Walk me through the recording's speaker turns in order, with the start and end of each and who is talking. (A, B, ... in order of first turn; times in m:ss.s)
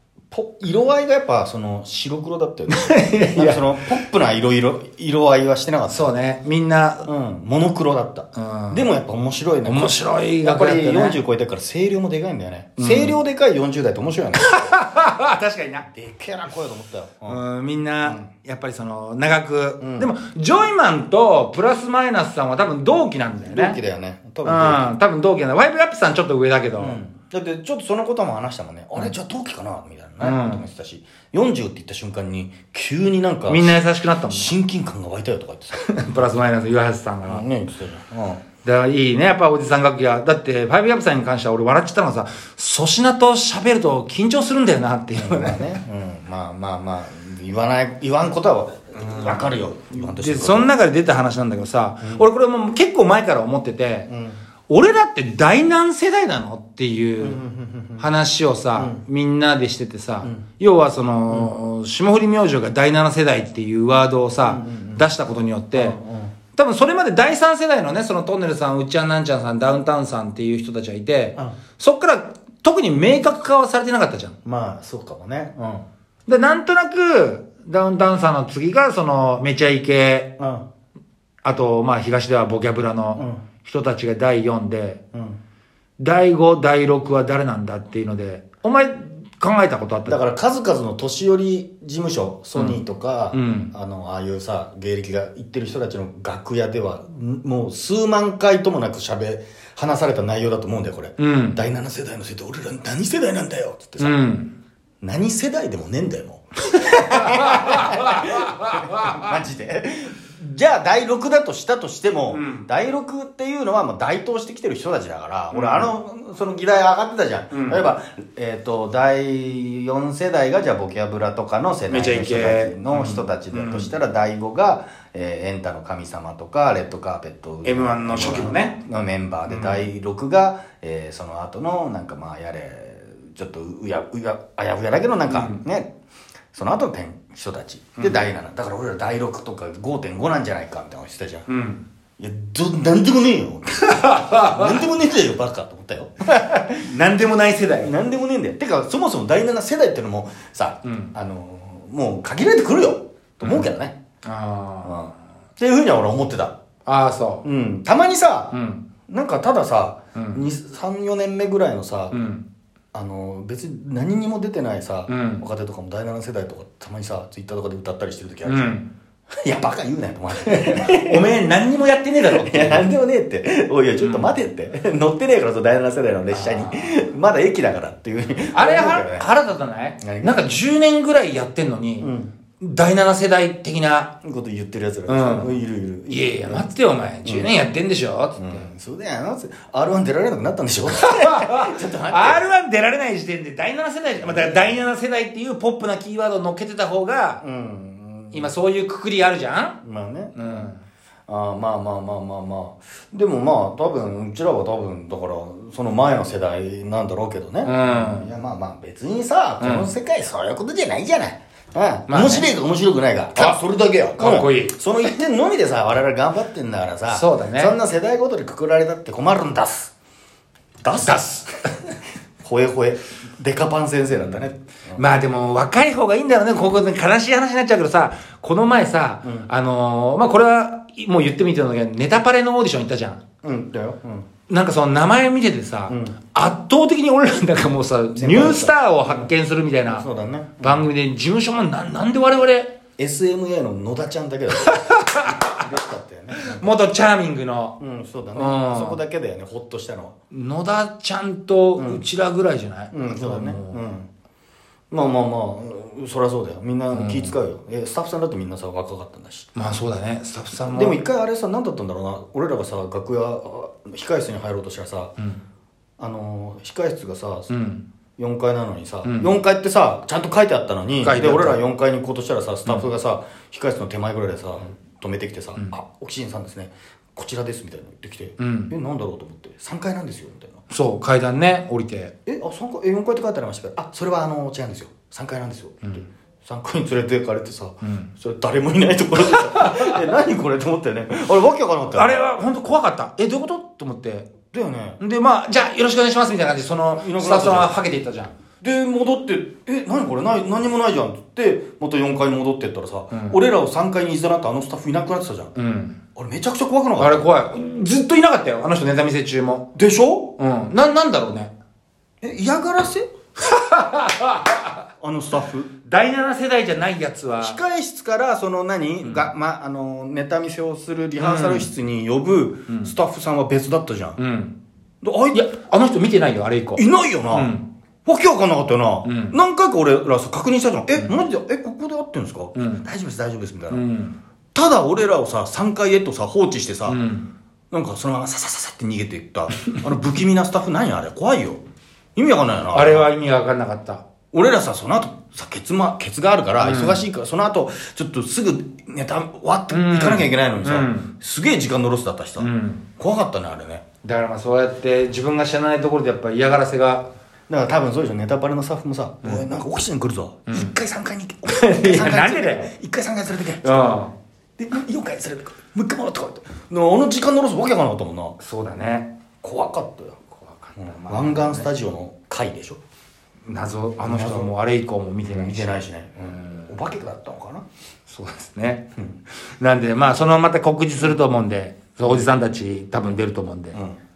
0:00.3-0:06.1 A
0:02.7-0:03.6 B
0:05.9-0:07.1 B
0:07.0-0:14.8 A
0:08.4-0:08.9 B
0:09.7-0:11.2 B
0:12.8-0:13.2 B
0:14.5-0:15.9 B
0:15.9-0:17.4 A
0:17.3-0:23.8 B
0:19.8-0:20.1 A
0:23.4-0:24.9 A
0:24.4-0:27.0 B
0:26.8-0:35.8 A
0:30.2-0:30.6 B
0:33.5-0:34.5 B
0:35.8-0:37.4 B
0:37.3-0:38.4 A
0:38.6-0:45.8 B
0:45.1-0:50.7 A
0:49.9-0:54.1 B
0:54.1-0:54.4 A
0:54.7-0:57.4 B
0:57.2-0:58.1 A
0:58.0-1:06.0 B
0:58.8-0:59.0 A
1:04.4-1:05.1 A
1:05.7-1:06.3 A
1:06.5-1:14.4 B
1:14.4-1:15.9 A
1:16.3-1:20.3 B
1:20.4-1:20.7 A
1:21.4-1:25.0 B
1:23.2-1:23.4 A
1:25.1-1:25.4 A
1:26.0-1:30.2 B
1:30.1-1:44.2 A
1:33.3-1:33.7 B
1:41.2-1:41.6 B
1:44.0-1:44.5 B
1:45.0-2:15.9 A
1:46.8-1:49.3 B
1:52.3-1:52.7 B
1:55.5-1:55.9 B
1:57.5-1:57.8 B
2:01.9-2:03.9 B
2:07.6-2:08.8 B
2:09.5-2:09.9 B
2:15.3-2:15.6 B
2:16.5-2:21.5 A
2:18.0-2:18.2 B
2:21.5-2:21.8 B
2:22.2-2:26.9 A
2:23.9-2:24.8 B
2:26.8-2:27.9 B
2:27.8-2:34.0 A
2:30.8-2:31.1 B
2:33.4-2:33.7 B
2:34.2-2:35.0 B
2:34.8-2:36.6 A
2:36.9-2:37.4 B
2:37.4-2:38.6 A
2:38.5-2:38.8 B
2:39.1-2:42.2 A
2:40.2-2:40.4 B
2:42.1-2:42.4 B
2:42.9-2:48.8 A
2:45.1-2:45.4 B
2:48.5-2:48.9 B
2:49.4-2:51.3 A
2:50.5-2:52.9 B
2:52.2-2:59.3 A
2:54.0-2:54.3 B
2:56.3-2:56.9 B
2:58.5-3:04.1 B
3:00.0-3:00.5 A
3:02.0-3:02.3 A
3:04.2-3:06.7 A
3:05.1-3:05.5 B
3:06.1-3:08.6 B
3:07.2-3:07.5 A
3:08.4-3:12.5 A
3:11.0-3:17.4 B
3:14.2-3:14.8 A
3:17.4-3:18.5 A
3:18.3-3:19.8 B
3:19.8-3:20.7 A
3:20.4-3:20.8 B
3:21.3-3:39.9 A
3:27.6-3:28.3 B
3:29.6-3:29.9 B
3:32.1-3:32.5 B
3:34.2-3:34.8 B
3:37.1-3:37.8 B
3:40.8-3:45.0 A
3:45.0-3:53.2 B
3:49.2-3:49.5 A
3:53.4-3:54.3 A
3:54.5-4:00.1 B
3:55.9-3:56.2 A
3:58.2-3:59.3 A
3:59.9-4:00.9 A
4:00.6-4:02.8 B
4:03.0-4:06.7 A
4:04.6-4:05.6 B
4:06.4-4:07.8 B
4:07.8-4:10.2 A
4:08.4-4:09.0 B
4:10.3-4:13.8 B
4:11.8-4:12.0 A
4:12.9-4:14.1 A
4:14.9-4:19.5 A
4:16.9-4:17.4 B
4:19.6-4:21.0 B
4:20.7-4:25.2 A
4:26.0-4:27.5 A
4:27.5-4:27.8 B
4:28.2-4:40.6 A
4:31.0-4:31.6 B
4:38.4-4:38.7 B
4:40.7-4:42.1 B
4:42.3-4:52.2 A
4:49.3-4:50.0 B
4:52.0-4:54.3 B
4:54.5-4:55.0 A
4:55.0-4:58.3 B
4:56.9-4:57.7 A
4:58.6-5:05.5 A
5:03.1-5:03.4 B
5:05.6-5:06.0 B
5:06.2-5:07.2 A
5:07.0-5:09.7 B
5:09.8-5:10.3 A
5:10.4-5:11.5 B
5:12.2-5:13.1 A
5:13.4-5:14.8 B
5:15.0-5:15.7 A
5:15.8-5:17.6 B
5:17.4-5:24.2 A
5:19.0-5:19.3 B
5:21.2-5:21.7 B
5:24.2-5:24.6 B
5:25.0-5:25.5 A
5:25.3-5:27.7 B
5:26.8-5:27.5 A
5:28.0-5:33.8 A
5:29.0-5:29.4 B
5:32.6-5:32.8 B
5:33.7-5:34.2 B
5:34.5-5:37.0 A
5:36.9-5:37.3 B
5:37.7-5:41.6 A
5:42.2-5:43.1 A
5:42.7-5:44.0 B
5:44.3-5:53.8 A
5:46.6-5:47.0 B
5:49.7-5:51.1 B
5:52.4-5:52.8 B
5:54.0-5:57.1 B
5:57.5-6:04.0 A
6:00.5-6:00.7 B
6:01.5-6:02.7 B
6:03.6-6:04.2 B
6:04.6-6:08.4 A
6:08.4-6:09.1 B
6:09.4-6:10.2 A
6:10.3-6:11.7 B
6:10.8-6:12.8 A
6:13.5-6:15.8 B
6:14.0-6:14.5 A
6:15.3-6:17.6 A
6:18.1-6:18.9 B
6:19.5-6:23.8 B